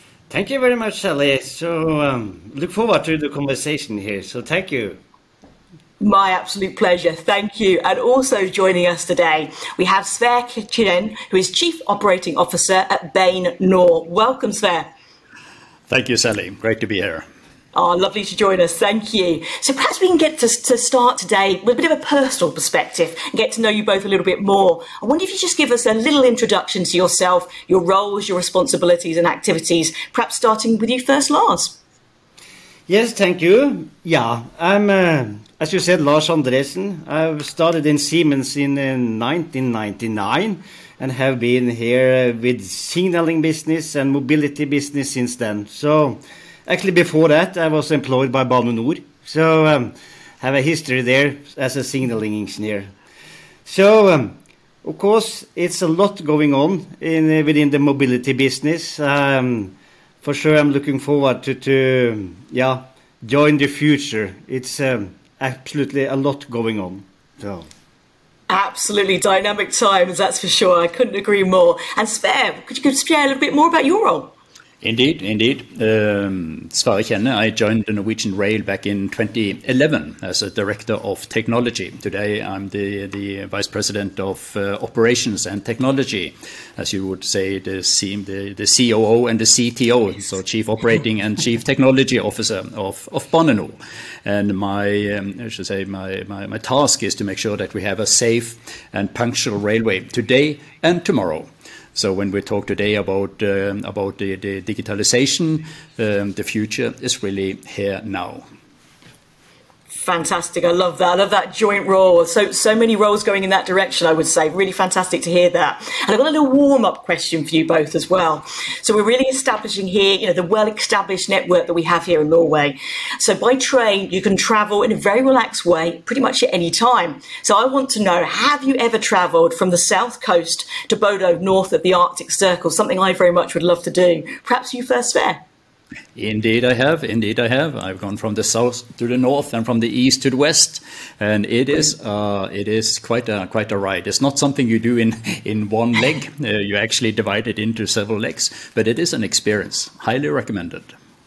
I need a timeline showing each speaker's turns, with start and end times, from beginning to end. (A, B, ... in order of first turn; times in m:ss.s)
0:00.3-0:05.0 A
0:06.0-0:14.9 B
0:15.9-0:17.3 C
0:17.7-0:31.8 B
0:32.9-0:52.9 A
0:53.6-1:07.7 A
1:08.5-1:14.3 B
1:14.8-1:48.4 C
1:49.9-2:15.4 B
2:16.2-2:30.9 C